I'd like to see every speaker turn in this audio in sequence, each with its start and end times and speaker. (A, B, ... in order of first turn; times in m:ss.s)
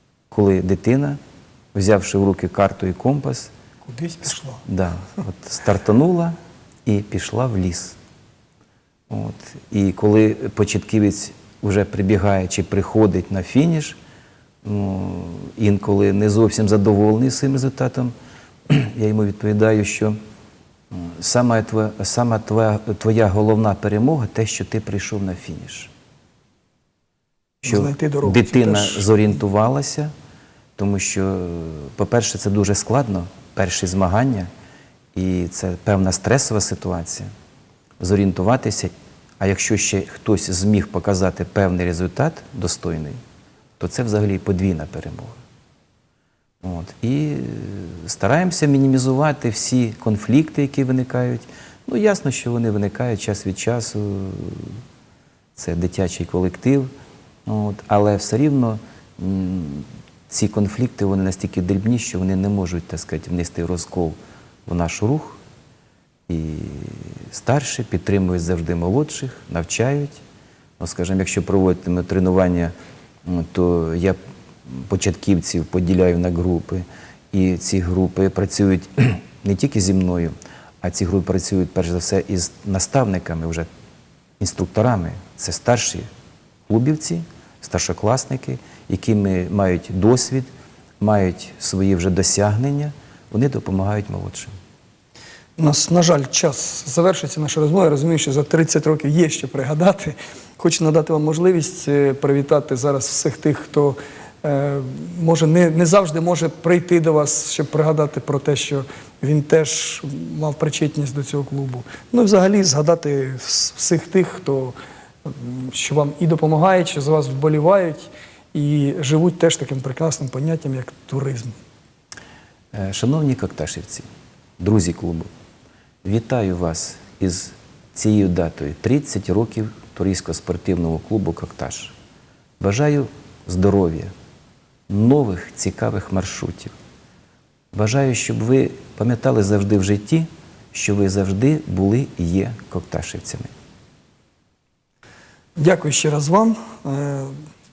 0:00.3-0:01.2 A
0:01.7-0:03.5 A
0:03.8-0:04.6 B
0:04.6-0:08.0 A
0:09.1-0:14.0 A
0:14.6-0:18.1 A
0:18.7-0:20.2 A
0:20.9-0:25.9 A
0:27.6-0:30.1 A
0:27.6-0:29.0 B
0:30.8-0:34.5 A
0:35.2-0:37.3 A
0:38.0-0:43.2 A
0:43.8-0:45.4 A
0:46.6-0:54.8 A
0:55.6-0:56.9 A
0:57.5-1:05.4 A
1:06.3-1:10.2 A
1:10.8-1:12.7 A
1:13.2-1:23.7 A
1:24.4-1:26.1 A
1:26.7-1:34.5 A
1:35.6-2:01.5 B
2:02.7-2:04.1 A
2:04.6-2:05.3 A
2:06.0-2:12.0 A
2:12.6-2:14.1 A
2:14.9-2:16.7 A
2:17.7-2:23.5 A
2:25.6-2:27.3 B